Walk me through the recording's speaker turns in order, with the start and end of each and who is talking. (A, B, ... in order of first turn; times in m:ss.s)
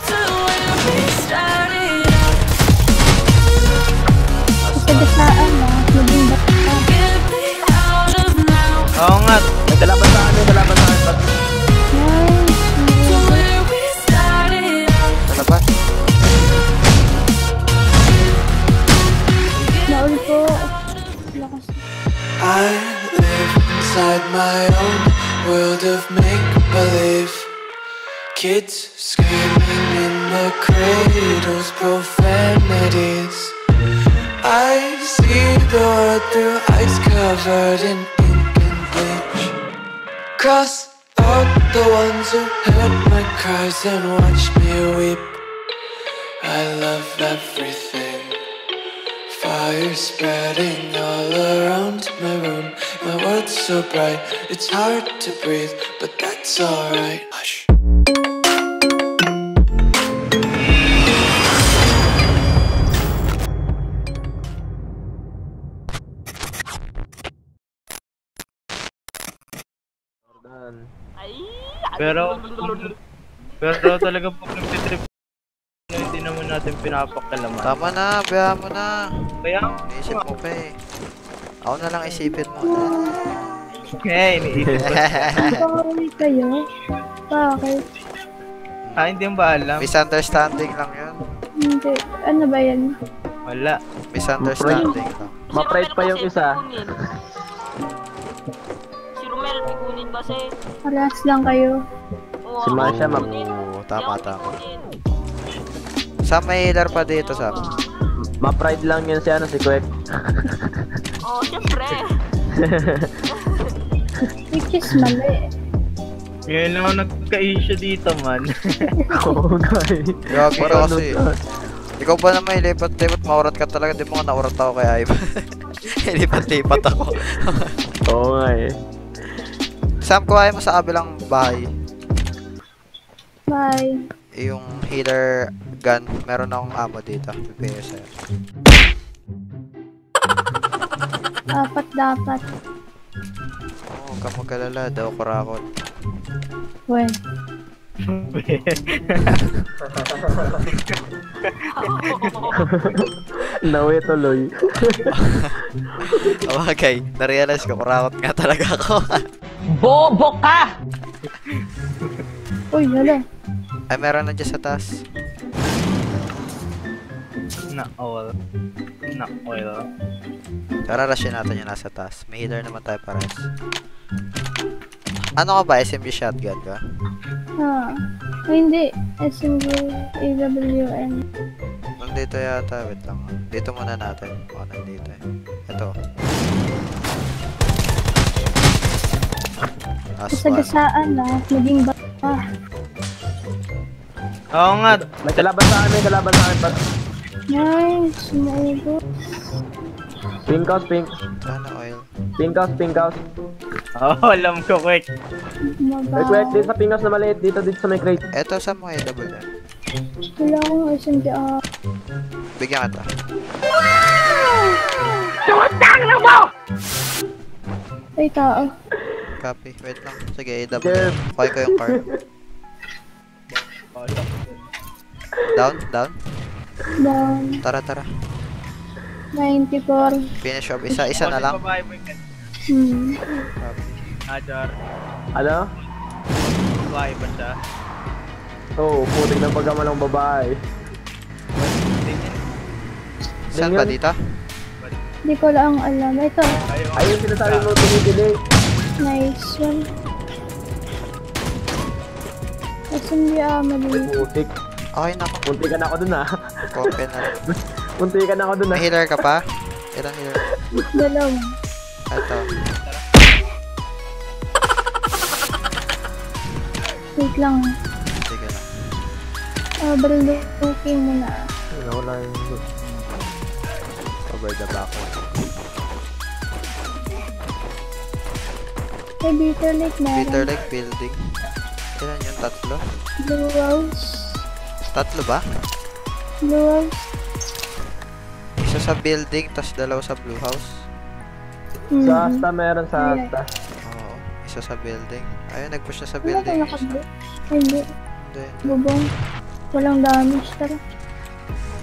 0:04.6-0:05.2 A
0:04.7-0:07.0 B
0:07.4-0:08.1 C
0:09.0-0:09.5 D
0:09.7-0:11.3 E
0:11.9-0:13.5 B
0:15.2-0:15.6 A
0:19.9-0:20.7 B
0:21.3-0:21.8 B
0:22.4-0:27.5 F
0:28.3-0:33.6 F
0:34.4-0:39.6 F
0:40.4-0:45.4 F
0:46.4-0:48.4 F
0:49.3-0:57.7 F
1:10.3-1:10.9 E
1:11.2-1:12.9 C
1:12.0-1:12.9 D
1:13.6-1:15.0 D
1:15.9-1:17.7 D
1:17.6-1:18.9 A
1:19.4-1:20.3 D
1:19.9-1:20.7 A
1:21.6-1:22.9 A
1:24.0-1:25.3 D
1:24.8-1:25.6 A
1:25.4-1:26.6 B
1:27.3-1:27.8 B
1:29.0-1:29.9 D
1:29.8-1:31.1 A
1:31.6-1:32.9 B
1:33.5-1:33.8 D
1:34.1-1:35.3 A
1:34.4-1:34.9 E
1:34.7-1:35.1 B
1:35.5-1:37.0 C
1:35.5-1:36.7 E
1:39.2-1:40.5 C
1:40.9-1:41.8 B
1:42.4-1:44.9 C
1:42.6-1:43.3 E
1:42.8-1:44.5 A
1:46.3-1:47.6 A
1:47.1-1:47.8 C
1:48.4-1:50.8 E
1:51.3-1:52.1 C
1:52.6-1:53.1 E
1:53.4-1:53.7 C
1:54.5-1:55.5 B
1:56.5-1:58.9 D
1:59.0-1:59.4 B
1:59.1-2:01.3 E
2:00.3-2:01.1 A
2:02.0-2:05.4 A
2:06.0-2:07.7 A
2:08.1-2:08.7 E
2:10.0-2:11.7 A
2:13.5-2:13.9 B
2:14.4-2:15.3 A
2:15.8-2:18.1 A
2:21.6-2:22.4 B
2:23.9-2:25.6 A
2:28.1-2:29.4 D
2:30.1-2:30.4 E
2:30.9-2:32.5 D
2:31.7-2:32.7 C
2:32.6-2:35.1 E
2:35.2-2:35.6 A
2:36.1-2:39.2 A
2:41.5-2:42.2 D
2:42.7-2:43.2 B
2:43.9-2:44.9 A
2:47.7-2:48.3 D
2:49.1-2:49.8 D
2:50.9-2:53.4 A
2:55.4-2:56.8 A
2:57.6-2:57.9 B
2:58.5-3:01.2 B
3:02.0-3:05.9 A
3:10.2-3:10.7 A
3:10.3-3:12.4 B
3:14.6-3:15.5 D
3:14.9-3:16.8 E
3:17.5-3:19.0 B
3:20.5-3:21.1 E
3:21.5-3:22.0 A
3:22.4-3:23.2 E
3:24.0-3:25.1 D
3:25.8-3:26.7 B
3:26.2-3:28.2 E
3:28.3-3:29.5 A
3:30.3-3:31.5 B
3:32.6-3:33.1 A
3:36.0-3:36.3 E
3:38.2-3:38.7 B
3:39.4-3:42.0 A
3:40.8-3:42.1 E
3:43.5-3:44.6 D
3:45.5-3:46.1 A
3:47.0-3:47.6 B
3:47.6-3:48.1 A
3:49.3-3:50.2 B
3:50.4-3:51.6 A
3:51.1-3:52.2 D
3:52.7-3:53.2 B
3:53.6-3:54.0 A
3:54.3-3:54.8 D
3:55.4-3:55.7 E
3:56.4-3:57.5 D
3:58.8-4:00.6 E
4:01.5-4:02.4 D
4:03.5-4:04.2 A
4:03.5-4:04.0 E
4:05.3-4:06.5 B
4:06.7-4:07.8 D
4:07.0-4:08.3 E
4:09.0-4:09.8 B
4:12.9-4:14.2 B
4:13.9-4:14.5 E
4:15.0-4:15.5 A
4:15.4-4:16.3 E
4:16.7-4:17.3 A
4:16.8-4:18.8 E
4:18.7-4:19.4 A
4:19.9-4:20.4 A
4:20.9-4:21.4 B
4:22.1-4:22.5 A
4:27.2-4:27.7 B
4:28.3-4:28.6 A
4:29.8-4:31.3 B
4:31.8-4:32.6 E
4:34.3-4:35.2 A
4:39.2-4:40.5 B
4:40.2-4:41.2 A
4:42.0-4:42.8 A
4:43.2-4:44.3 B
4:44.9-4:45.4 A
4:46.4-4:47.1 B
4:48.6-4:50.7 A
4:51.9-4:52.4 B
4:52.0-4:53.5 E
4:53.0-4:53.3 B
4:53.8-4:56.9 A
4:56.2-4:57.8 B
4:58.2-4:58.8 A
4:58.6-4:59.0 B
4:59.7-5:00.8 B